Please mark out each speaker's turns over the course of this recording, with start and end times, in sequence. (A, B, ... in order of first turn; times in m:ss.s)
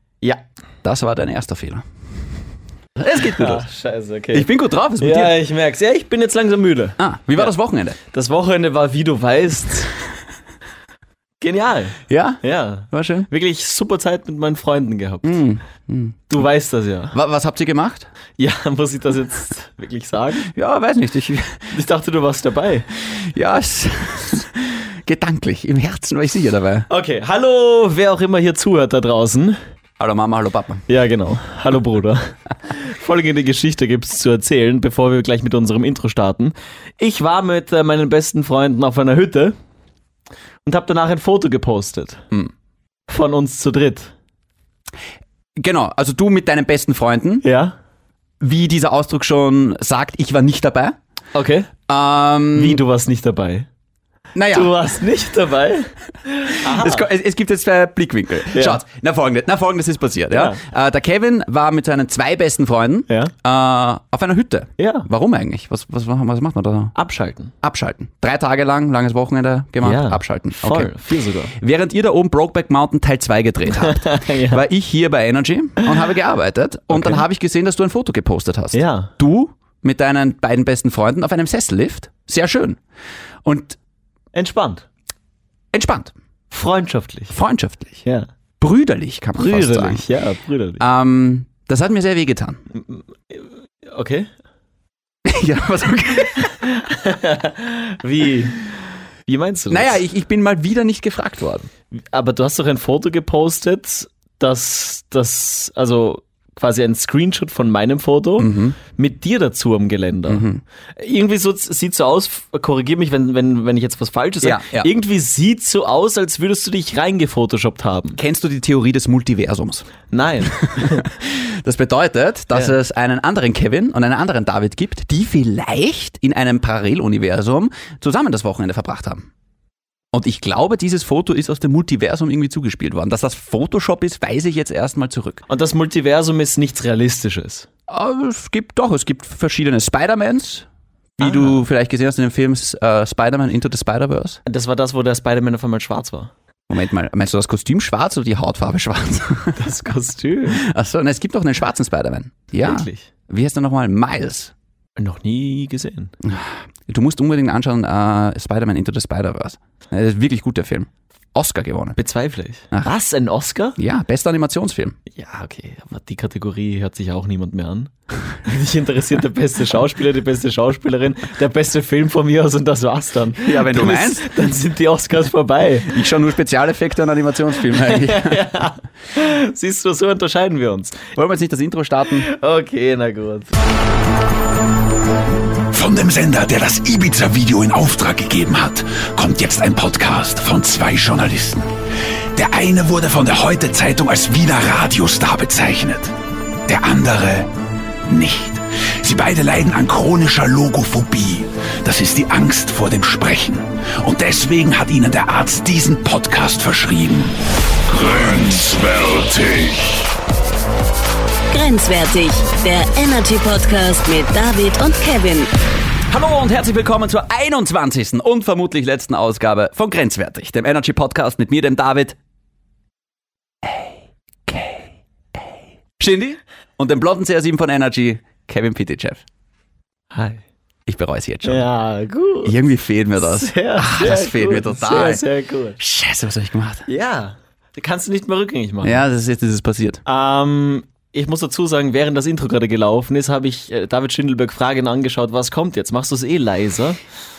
0:00.8-0:01.8 A
0:03.0-0:03.7 A
0:03.1-0:04.5 B
0:04.3-0:05.4 A
0:05.0-0:07.5 B
0:07.0-0:08.0 A
0:08.1-0:09.9 B
0:11.4-0:15.4 B
0:12.1-0:13.3 A
0:15.2-0:16.3 A
0:16.3-0:17.1 B
0:17.1-0:18.1 A
0:18.4-0:20.5 B
0:20.5-0:21.8 A
0:21.7-0:22.9 B
0:23.0-0:26.9 A
0:26.9-0:29.6 B
0:30.0-0:30.8 A
0:30.9-0:39.6 B
0:40.7-0:42.2 B
0:43.1-0:44.1 B
0:45.6-0:47.4 A
0:47.4-0:47.8 B
0:48.4-0:51.0 A
0:51.3-0:51.7 B
0:51.9-0:52.8 A
0:52.5-0:53.7 B
0:54.3-0:54.7 A
0:54.5-0:57.0 B
0:56.6-1:06.9 A
0:58.5-0:58.8 B
1:00.3-1:00.6 B
1:04.8-1:05.1 B
1:07.0-1:07.5 B
1:07.6-1:11.0 A
1:09.8-1:11.5 B
1:11.5-1:22.8 A
1:13.8-1:14.6 B
1:16.9-1:17.2 B
1:18.7-1:19.1 B
1:23.4-1:23.8 A
1:24.3-1:24.9 B
1:25.7-1:26.1 A
1:26.5-1:27.3 B
1:27.3-1:28.0 A
1:28.0-1:28.3 B
1:28.6-1:30.0 A
1:29.4-1:30.8 B
1:30.8-1:32.6 A
1:32.7-1:34.3 B
1:35.2-1:36.6 A
1:36.6-1:38.7 B
1:39.3-1:40.0 B
1:39.7-1:41.7 A
1:41.9-1:58.2 B
1:48.4-1:48.8 A
1:50.3-1:50.6 A
1:54.4-1:54.9 A
1:58.2-2:09.3 A
2:00.1-2:01.1 B
2:10.1-2:15.4 A
2:15.5-2:17.7 B
2:17.9-2:20.7 A
2:21.2-2:24.4 A
2:24.4-2:26.3 B
2:26.7-2:29.7 A
2:29.6-2:30.6 B
2:30.5-2:34.5 A
2:32.6-2:33.1 B
2:35.0-2:36.1 B
2:36.2-2:42.0 A
2:42.0-2:43.8 B
2:43.8-2:45.0 A
2:45.1-2:56.0 B
2:53.4-2:54.4 A
2:55.9-2:58.5 A
2:57.7-3:01.1 B
3:01.1-3:02.3 A
3:02.2-3:03.5 B
3:05.7-3:11.7 C
3:12.3-3:16.1 C
3:16.7-3:17.5 C
3:18.1-3:30.1 C
3:31.5-3:35.5 D
3:36.1-3:42.2 A
3:43.6-3:49.2 A
3:50.1-3:50.4 B
3:50.9-3:51.7 A
3:51.4-3:52.6 B
3:52.4-3:55.2 A
3:53.2-3:55.8 B
3:55.8-3:56.8 A
3:56.9-3:59.0 B
3:58.8-4:00.0 A
4:00.0-4:07.0 B